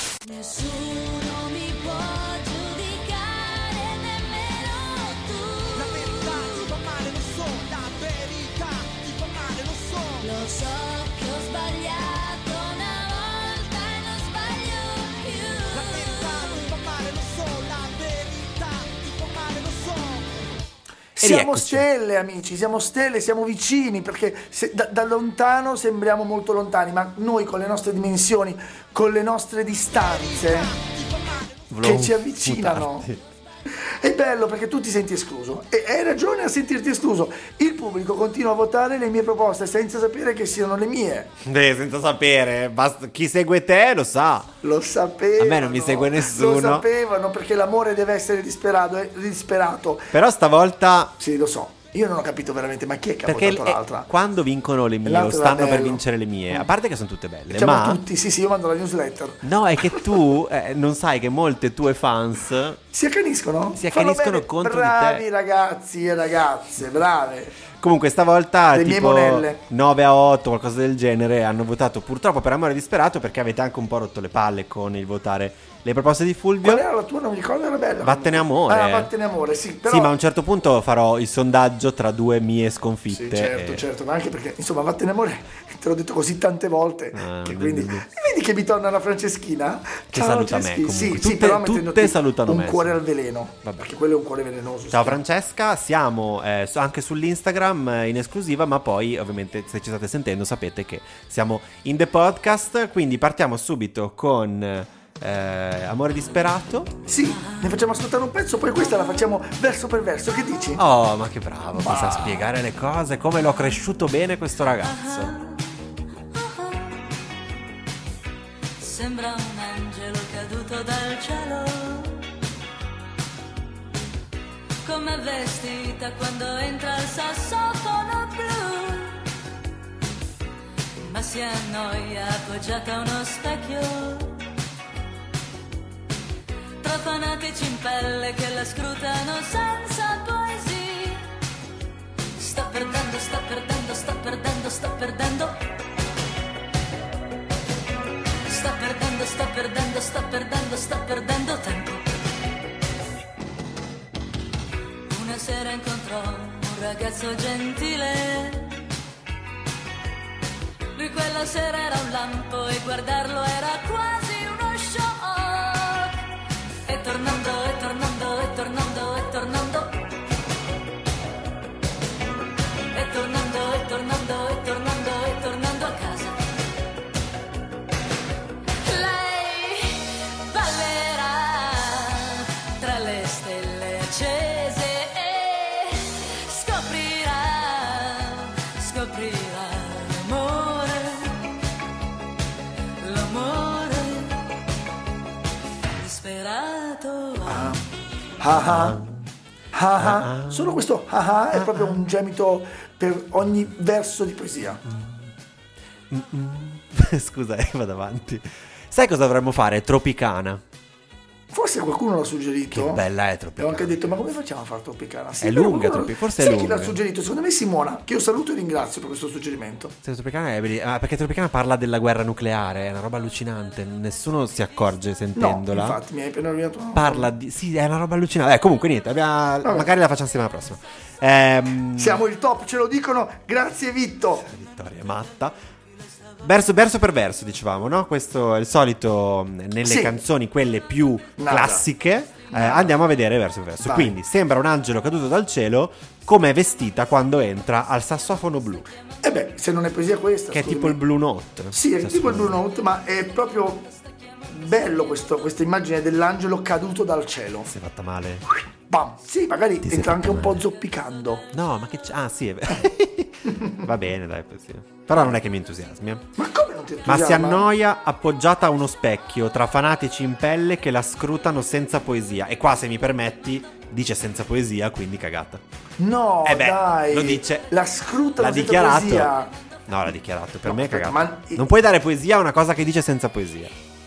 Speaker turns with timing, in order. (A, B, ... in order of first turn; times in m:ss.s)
0:00.3-0:06.7 A
0:05.8-0:10.2 B
0:10.1-0:16.8 A
0:15.7-0:20.3 B
0:21.2-0:21.9 C
0:21.2-0:30.8 D
0:30.8-0:31.5 B
0:31.7-0:33.2 C
0:31.8-0:33.1 D
0:33.7-0:41.3 D
0:41.4-0:44.5 C
0:44.6-0:50.2 D
0:45.4-0:46.9 C
0:50.1-0:51.2 C
0:51.2-0:54.1 D
0:53.2-0:58.0 C
0:55.0-0:56.7 D
0:57.5-1:00.2 D
0:59.4-1:02.8 C
1:02.9-1:07.6 D
1:03.7-1:05.2 C
1:07.8-1:16.8 C
1:08.7-1:09.6 D
1:16.6-1:20.1 D
1:18.0-1:19.1 C
1:19.8-1:23.8 C
1:23.1-1:35.2 D
1:27.1-1:28.1 C
1:30.1-1:33.0 C
1:34.9-1:46.9 C
1:47.1-1:50.8 D
1:50.8-1:55.4 C
1:51.7-1:52.5 D
1:54.8-1:55.8 A
1:56.3-1:57.0 A
1:58.8-2:02.3 A
2:04.8-2:09.4 A
2:11.0-2:14.5 A
2:16.8-2:21.3 A
2:22.4-2:25.6 A
2:28.5-2:32.2 A
2:35.1-2:38.8 A
2:41.0-2:46.3 A
2:46.9-2:50.1 A
2:52.9-2:56.5 A
2:58.8-3:11.6 A
3:13.0-3:14.4 A
3:16.0-3:17.8 A
3:17.4-3:17.9 D
3:18.4-3:19.0 D
3:18.5-3:19.3 C
3:19.7-3:24.8 D
3:20.0-3:20.8 C
3:21.5-3:22.0 C
3:24.9-3:25.3 C
3:26.1-3:30.6 C
3:31.5-3:33.0 D
3:32.7-3:34.2 C
3:33.6-3:40.0 D
3:35.4-3:37.0 C
3:40.0-3:46.0 C
3:45.4-3:47.3 D
3:46.9-3:52.2 C
3:49.6-3:49.9 D
3:51.9-3:54.5 D
3:54.4-3:55.5 C
3:56.4-4:08.9 C
3:59.8-4:00.2 D
4:01.4-4:01.9 D
4:02.5-4:03.0 D
4:03.8-4:04.2 D
4:09.2-4:11.0 D
4:10.5-4:12.6 C
4:11.7-4:13.9 D
4:14.5-4:17.7 D
4:17.7-4:18.5 C
4:18.9-4:21.5 D
4:19.8-4:20.6 C
4:21.5-4:26.2 C
4:23.5-4:23.9 D
4:26.4-4:27.7 D
4:27.1-4:35.6 C
4:36.0-4:39.5 D
4:36.4-4:37.7 C
4:38.4-4:39.4 C
4:39.9-4:43.7 C
4:40.6-4:41.6 D